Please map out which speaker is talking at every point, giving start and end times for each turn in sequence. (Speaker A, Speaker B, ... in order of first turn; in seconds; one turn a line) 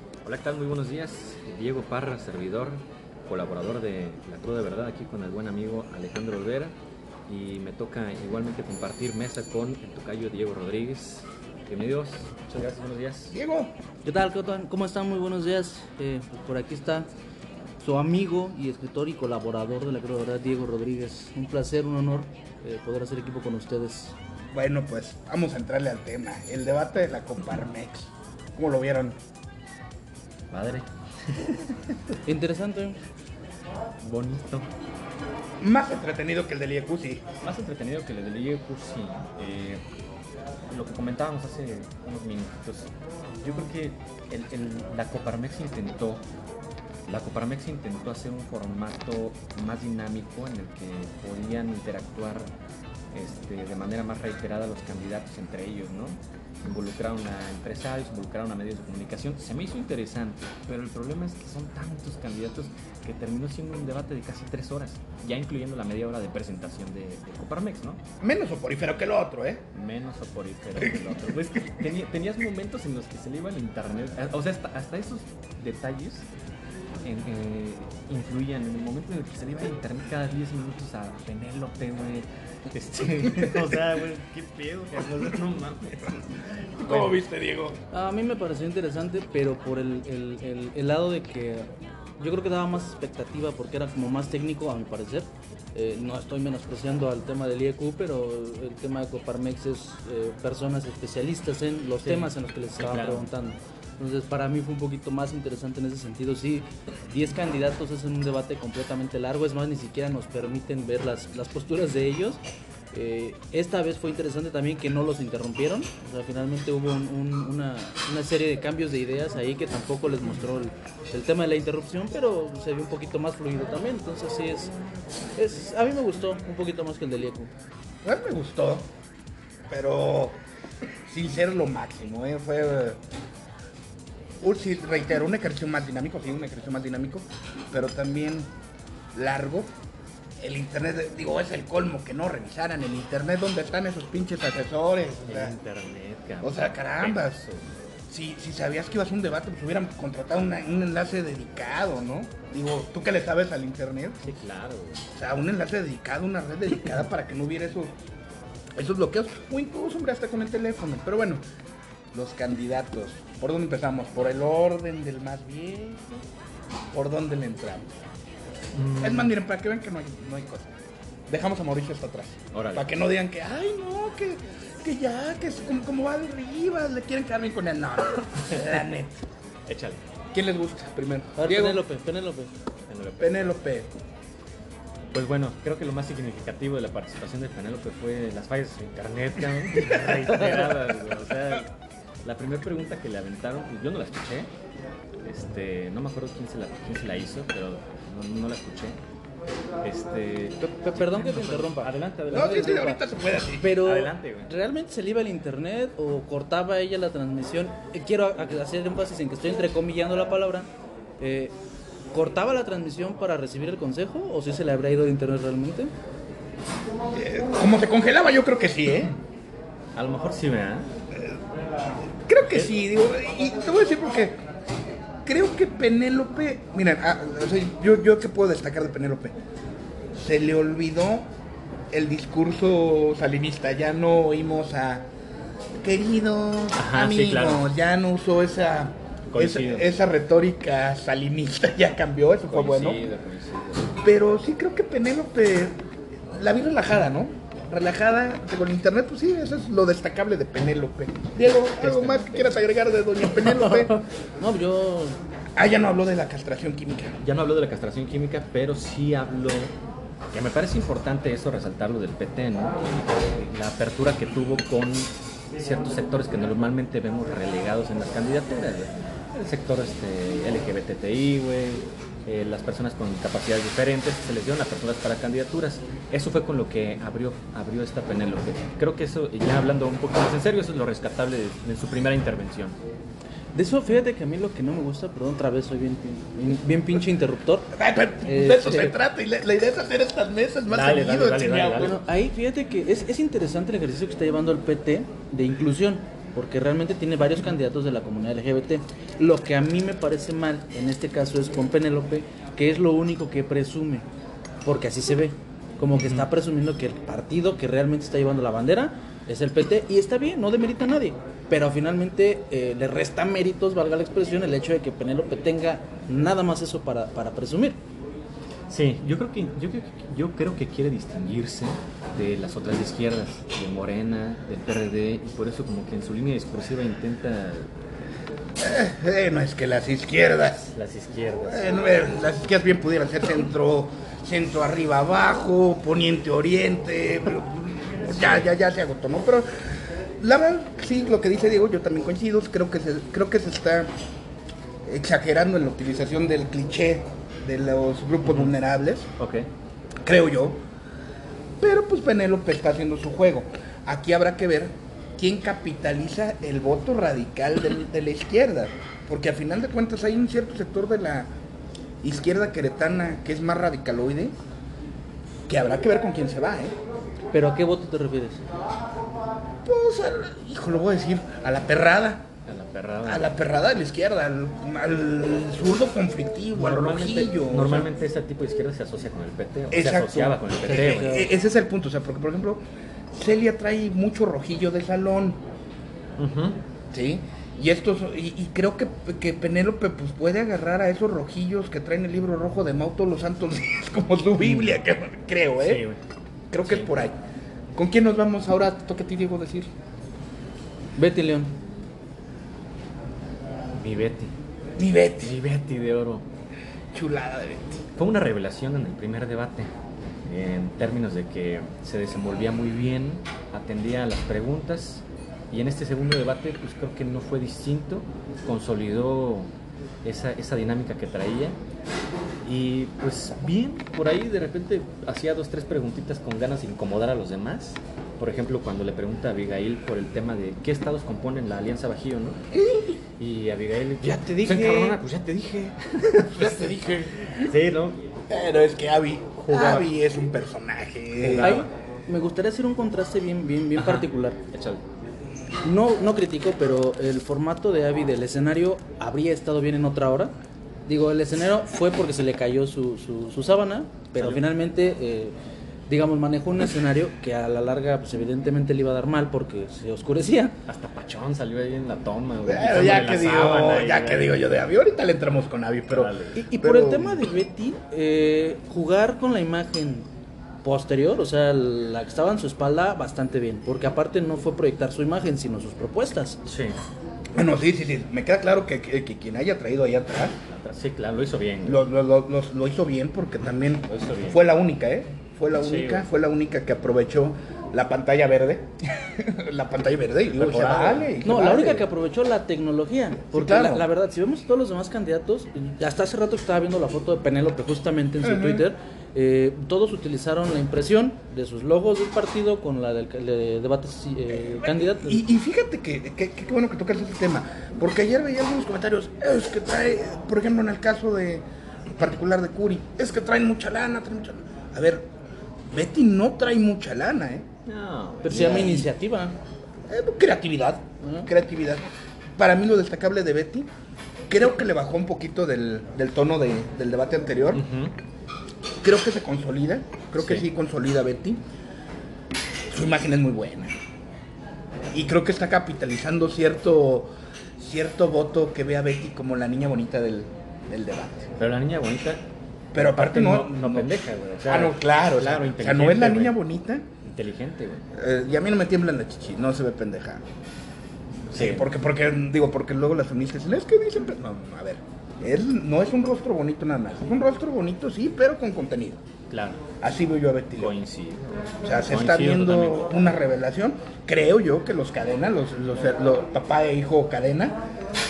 Speaker A: 0.2-6.7
Speaker A: 7.3-13.3
Speaker B: 13.3-13.7
Speaker C: 14.1-17.1
Speaker C: 17.8-24.1
Speaker B: 24.5-29.2
Speaker A: 30.5-32.2
Speaker C: 32.2-33.0
Speaker A: 34.0-34.7
Speaker B: 35.6-37.2
Speaker A: 37.4-39.8
Speaker A: 40.7-46.2
Speaker A: 47.1-52.5
Speaker A: 53.1-68.0
Speaker B: 68.2-69.6
Speaker A: 69.7-76.3
Speaker A: 77.0-87.2
Speaker B: 83.3-83.6
Speaker B: 86.8-87.8
Speaker C: 87.9-112.4
Speaker A: 102.0-103.3
Speaker C: 112.9-124.7
Speaker C: 125.4-127.5
Speaker B: 128.1-128.9
Speaker B: 129.7-130.4
Speaker B: 131.1-133.0
Speaker B: 134.4-138.5
Speaker B: 139.2-139.7
Speaker B: 140.4-145.6
Speaker A: 145.3-148.0
Speaker B: 146.4-147.4
Speaker B: 148.1-154.3
Speaker A: 154.2-155.0
Speaker B: 155.1-157.9
Speaker B: 158.8-161.4
Speaker B: 162.1-166.2
Speaker B: 166.9-167.9
Speaker A: 168.7-169.3
Speaker B: 169.0-170.7
Speaker B: 171.3-179.2
Speaker A: 172.5-172.9
Speaker A: 179.7-180.0
Speaker B: 180.3-181.8
Speaker C: 181.4-182.5
Speaker A: 182.9-183.5
Speaker B: 183.2-183.9
Speaker A: 185.1-191.7
Speaker A: 192.2-194.5
Speaker A: 195.2-199.0
Speaker A: 199.8-202.9
Speaker C: 200.6-203.0
Speaker B: 202.3-203.8
Speaker C: 203.6-210.7
Speaker A: 203.8-204.5
Speaker C: 211.2-211.5
Speaker C: 212.1-215.9
Speaker B: 217.2-219.2
Speaker A: 219.9-220.9
Speaker B: 222.2-224.3
Speaker B: 225.2-229.3
Speaker B: 230.2-231.3
Speaker B: 231.9-235.1
Speaker B: 235.8-243.0
Speaker A: 236.8-237.7
Speaker A: 239.3-239.9
Speaker A: 242.5-244.0
Speaker B: 244.0-245.8
Speaker B: 246.3-254.0
Speaker A: 251.7-252.6
Speaker C: 253.4-255.2
Speaker B: 255.6-257.2
Speaker A: 257.2-259.7
Speaker A: 260.3-282.8
Speaker C: 283.6-287.7
Speaker B: 287.7-291.9
Speaker C: 288.3-288.9
Speaker A: 290.7-292.0
Speaker C: 291.8-304.0
Speaker C: 304.6-317.8
Speaker A: 305.9-306.3
Speaker A: 318.7-327.7
Speaker B: 328.6-330.7
Speaker A: 330.7-331.7
Speaker B: 331.4-339.5
Speaker A: 338.1-338.5
Speaker B: 340.2-343.9
Speaker B: 344.9-349.1
Speaker A: 348.3-348.5
Speaker A: 349.2-349.5
Speaker B: 350.1-350.6
Speaker B: 351.6-361.3
Speaker B: 362.0-364.3
Speaker B: 365.5-366.7
Speaker C: 367.3-368.4
Speaker B: 369.7-372.3
Speaker A: 372.5-373.3
Speaker B: 373.1-377.9
Speaker A: 376.5-381.3
Speaker B: 379.7-382.6
Speaker C: 380.7-381.3
Speaker B: 383.1-385.4
Speaker A: 386.2-386.6
Speaker B: 386.9-395.8
Speaker A: 394.4-394.8
Speaker A: 395.6-396.0
Speaker B: 396.5-397.2
Speaker B: 397.8-399.7
Speaker C: 401.0-401.5
Speaker A: 403.7-404.3
Speaker B: 404.8-405.4
Speaker A: 405.2-406.2
Speaker B: 406.9-407.8
Speaker A: 408.0-409.7
Speaker A: 410.3-419.5
Speaker A: 420.0-421.6
Speaker A: 422.4-432.4
Speaker B: 432.5-433.0
Speaker A: 433.2-438.1
Speaker B: 434.1-435.0
Speaker B: 436.1-437.5
Speaker B: 438.3-441.6
Speaker A: 439.5-439.9
Speaker A: 441.2-441.7
Speaker C: 441.4-444.4
Speaker A: 443.8-444.8
Speaker C: 445.6-450.3
Speaker C: 450.9-455.4
Speaker A: 454.2-454.4
Speaker C: 455.9-460.6
Speaker A: 460.7-464.4
Speaker B: 462.4-467.3
Speaker A: 465.9-466.4
Speaker C: 466.4-470.0
Speaker C: 470.6-476.4
Speaker A: 476.4-476.8
Speaker B: 477.4-480.4
Speaker A: 480.5-481.9
Speaker B: 481.6-491.9
Speaker A: 483.9-484.4
Speaker A: 485.5-486.1
Speaker A: 490.2-491.1
Speaker C: 491.2-505.3
Speaker B: 493.3-493.9
Speaker B: 498.2-498.6
Speaker B: 504.4-511.4
Speaker B: 512.0-515.1
Speaker B: 515.7-517.5
Speaker A: 517.6-518.4
Speaker C: 518.2-519.4
Speaker B: 518.3-518.9
Speaker B: 519.9-523.7
Speaker C: 521.0-521.3
Speaker B: 524.3-527.6
Speaker A: 527.5-527.9
Speaker B: 528.8-531.4
Speaker A: 530.2-530.5
Speaker B: 532.7-533.7
Speaker B: 534.9-541.3
Speaker A: 541.4-542.2
Speaker B: 542.7-543.9
Speaker A: 542.8-546.4
Speaker B: 544.5-546.9
Speaker A: 547.0-547.9
Speaker B: 547.9-550.2
Speaker A: 551.3-551.7
Speaker B: 551.3-559.0
Speaker A: 559.3-559.6
Speaker B: 559.8-560.7
Speaker A: 560.6-563.0
Speaker B: 561.6-567.6